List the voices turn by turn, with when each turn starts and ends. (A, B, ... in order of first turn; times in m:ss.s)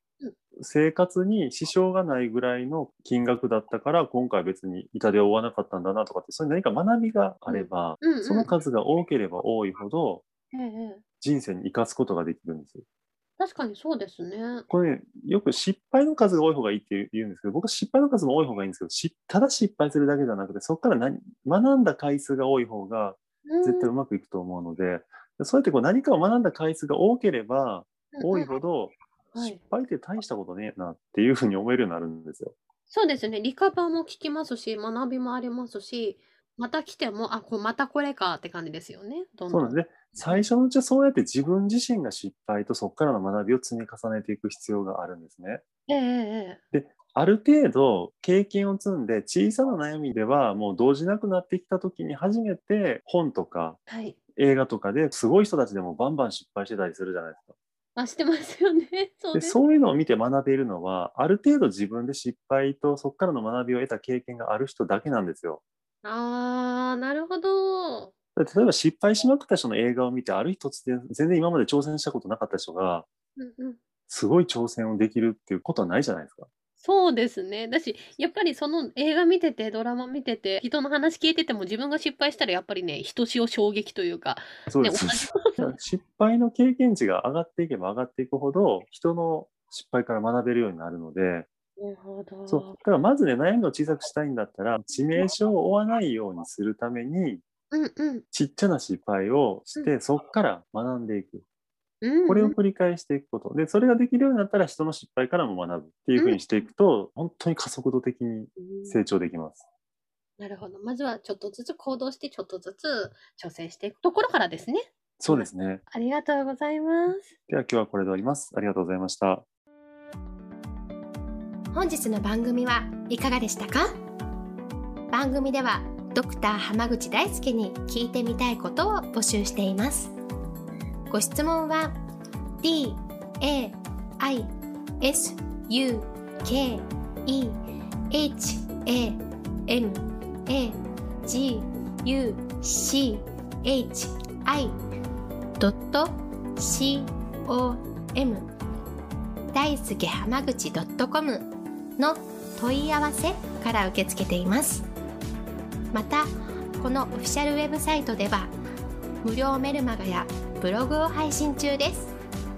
0:00.6-0:10.2 A
0:07.5-0:08.5 B
0:10.5-0:11.0 B
0:11.2-0:12.8 A
0:13.4-0:14.6 B
0:14.7-0:32.5 A
0:23.5-0:23.9 B
0:28.1-0:28.6 B
0:29.3-0:29.6 B
0:32.9-0:40.5 B
0:39.5-0:45.6 A
0:45.9-0:46.6 B
0:46.7-0:53.8 A
0:53.9-0:54.2 B
0:54.3-0:57.5 A
0:58.0-0:59.6 B
0:59.3-1:05.6 A
1:06.0-1:08.1 B
1:08.4-1:13.1 A
1:13.4-1:13.8 B
1:14.1-1:16.5 A
1:16.8-1:25.8 B
1:24.7-1:31.5 A
1:31.8-1:32.8 B
1:32.5-1:37.4 A
1:37.7-1:38.2 B
1:38.3-1:41.4 A
1:42.0-1:42.6 B
1:42.2-1:49.6 A
1:46.2-1:46.4 B
1:48.6-1:49.0 B
1:50.4-1:57.3 B
1:55.2-1:55.8 A
1:57.5-1:59.4 A
2:01.7-2:03.9 C
2:05.1-2:10.1 C
2:11.1-2:12.0 C
2:12.6-2:17.6 C
2:18.1-2:24.7 C
2:25.6-2:28.5 C
2:29.5-2:34.9 C
2:35.9-2:38.5 C
2:39.2-2:42.1 C